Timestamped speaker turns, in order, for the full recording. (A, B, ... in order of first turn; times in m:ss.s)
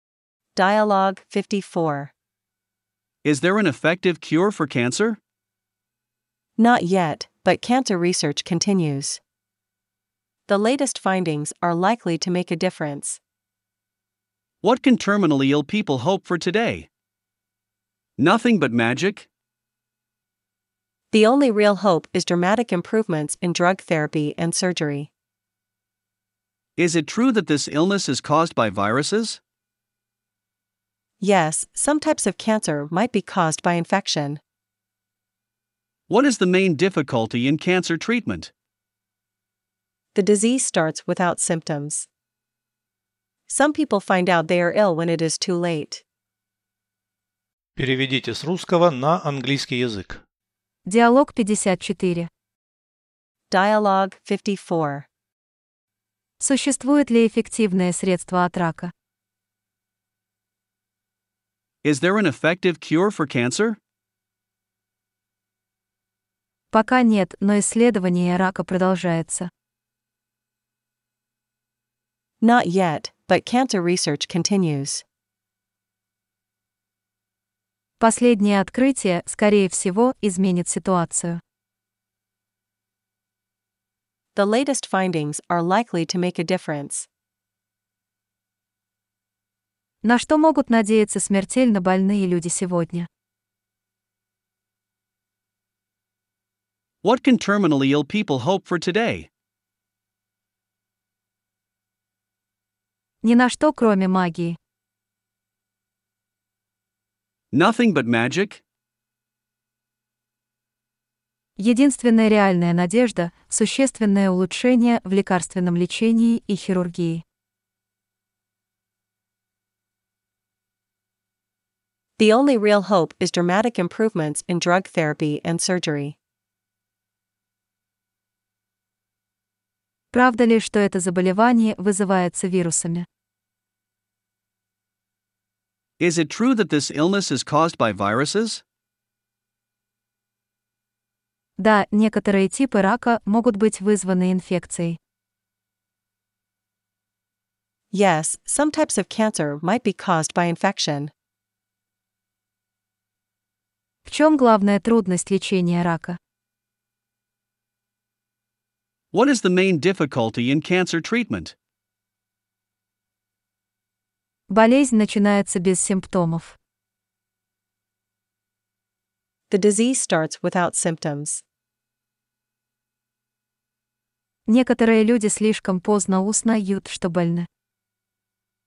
0:00.5-0:02.1 A
0:03.2-0:05.2 B
0:06.6-0:09.2 A
0:10.5-0:13.2 A
0:14.6-0:16.9 B
0:18.2-0:19.3 B
0:21.1-0:25.1 A
0:26.8-0:29.4 B
0:31.2-0:34.4 A
0:36.1-0:38.5 B
0:40.1-0:42.1 A
0:43.5-0:46.0 A
0:47.8-0:50.2 C
0:50.8-0:52.3 D
0:53.5-0:55.0 A
0:56.4-0:58.9 D
1:01.8-1:03.8 B
1:06.7-1:09.5 D
1:12.4-1:15.0 A
1:18.0-1:21.4 D
1:24.3-1:27.1 A
1:30.0-1:33.1 D
1:37.0-1:39.3 B
1:43.2-1:44.6 D
1:47.5-1:48.6 B
1:51.6-1:57.2 D
2:02.2-2:06.2 A
2:10.1-2:13.0 D
2:16.0-2:18.6 B
2:21.6-2:25.0 D
2:27.9-2:31.1 A
2:34.0-2:36.2 D
2:39.1-2:41.5 B
2:44.5-2:46.6 D
2:49.5-2:51.4 A
2:54.5-2:57.5 D